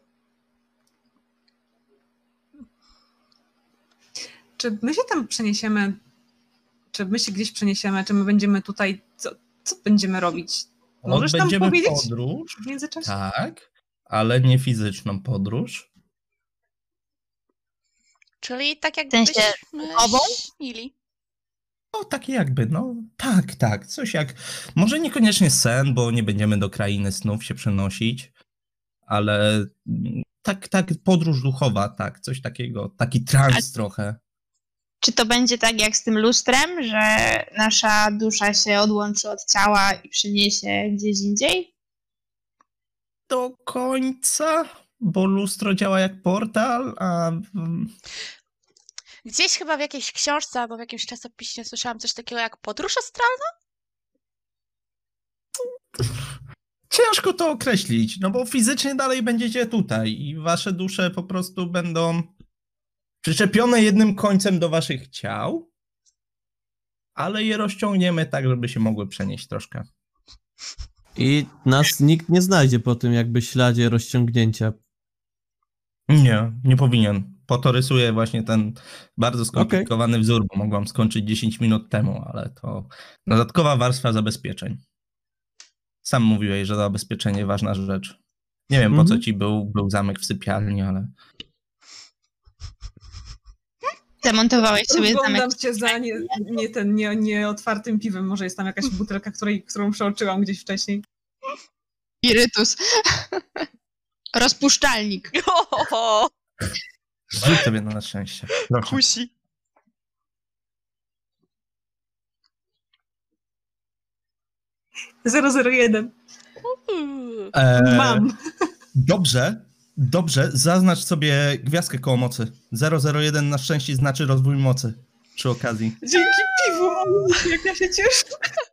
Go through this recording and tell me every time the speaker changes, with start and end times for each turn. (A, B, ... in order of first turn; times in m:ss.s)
0:04.6-0:06.0 A
0:06.9-0:13.1 A
0:11.0-0:15.9 B
0:18.4-0:20.9 C
0:19.1-0:20.4 D
0:21.9-0:28.3 B
0:29.1-0:34.2 B
0:35.0-0:41.7 D
0:43.3-0:47.9 B
0:49.2-0:53.5 C
0:56.9-1:02.3 B
1:03.2-1:05.7 B
1:07.2-1:09.9 B
1:11.2-1:14.8 E
1:16.1-1:24.8 B
1:19.6-1:19.9 E
1:26.0-1:28.2 B
1:28.7-1:31.1 B
1:28.9-1:29.2 E
1:34.2-1:35.5 D
1:34.9-1:41.0 A
1:42.2-1:43.6 D
1:44.4-1:45.3 D
1:45.3-1:46.3 C
1:47.3-1:49.0 B
1:48.8-1:49.3 C
1:55.2-1:56.1 A
1:56.7-1:57.5 C
1:57.5-1:58.3 B
1:57.8-1:58.4 A
1:59.0-2:06.0 B
2:06.0-2:08.4 A